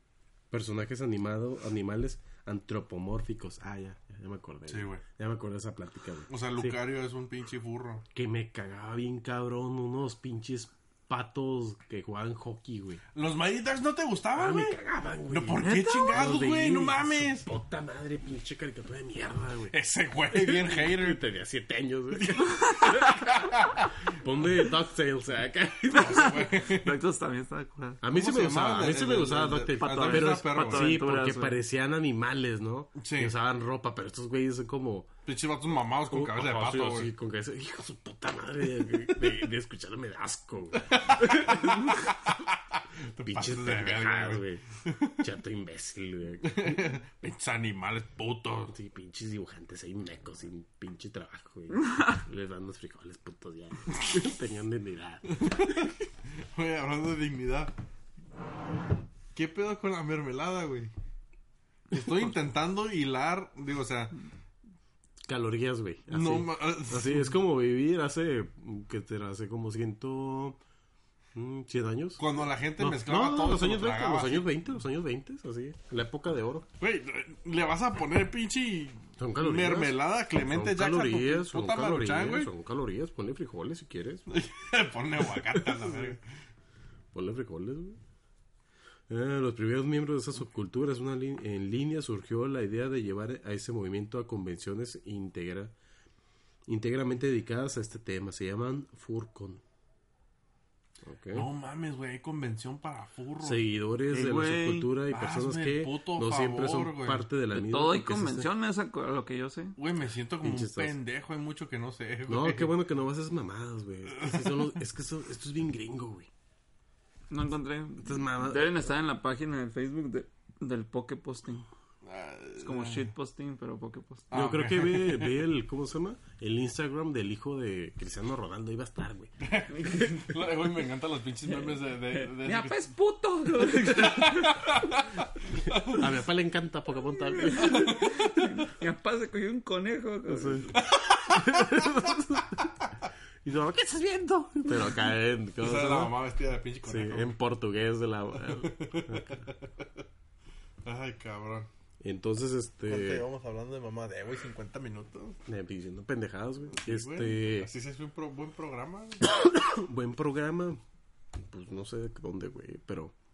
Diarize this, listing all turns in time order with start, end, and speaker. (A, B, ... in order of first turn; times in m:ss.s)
0:00.5-0:06.8 A
0:04.7-0:05.0 B
0:06.3-0:08.0 B
0:08.1-0:13.0 A
0:13.1-0:14.8 B
0:14.3-0:19.7 A
0:15.3-0:17.5 B
0:15.6-0:16.2 C
0:19.7-0:21.2 B
0:20.3-0:23.3 A
0:22.2-0:23.9 B
0:22.6-0:23.3 C
0:24.0-0:26.2 A
0:25.9-0:28.0 C
0:25.9-0:27.0 B
0:28.0-0:35.1 A
0:28.1-0:31.0 B
0:29.7-0:31.6 C
0:33.0-0:33.3 B
0:35.2-0:37.1 B
0:36.1-0:42.1 A
0:40.9-0:45.2 B
0:43.2-0:44.6 A
0:45.2-0:46.8 A
0:46.4-0:48.7 B
0:48.7-0:55.8 A
0:55.3-0:57.7 B
0:59.3-1:00.9 B
1:01.9-1:04.2 B
1:05.3-1:10.6 A
1:06.1-1:07.4 B
1:11.3-1:12.2 A
1:12.2-1:14.5 B
1:12.8-1:16.6 A
1:16.8-1:22.5 B
1:19.2-1:24.2 A
1:24.3-1:26.2 B
1:27.1-1:28.0 A
1:29.1-1:35.7 A
1:36.7-1:39.6 A
1:41.0-1:41.5 A
1:41.3-1:43.6 B
1:43.4-1:48.5 A
1:44.1-1:44.9 C
1:45.1-1:47.3 B
1:47.5-1:49.8 C
1:49.8-1:52.7 B
1:50.4-1:51.0 A
1:52.3-1:56.3 A
1:54.2-1:54.6 B
1:57.3-2:01.6 C
1:58.0-1:58.9 A
2:02.0-2:03.1 B
2:02.6-2:04.3 C
2:04.3-2:05.4 B
2:04.3-2:09.3 A
2:09.4-2:12.8 B
2:09.7-2:10.3 C
2:12.1-2:14.8 C
2:13.6-2:16.1 B
2:15.7-2:18.0 A
2:17.3-2:20.8 C
2:17.6-2:18.2 B
2:20.3-2:22.8 A
2:20.8-2:21.8 B
2:23.4-2:26.1 A
2:25.6-2:27.3 B
2:26.8-2:29.4 A
2:28.5-2:30.0 B
2:30.8-2:31.7 B
2:32.0-2:33.2 A
2:32.9-2:35.4 B
2:35.4-2:37.7 A
2:36.7-2:39.2 B
2:39.3-2:40.8 A
2:41.3-2:43.1 A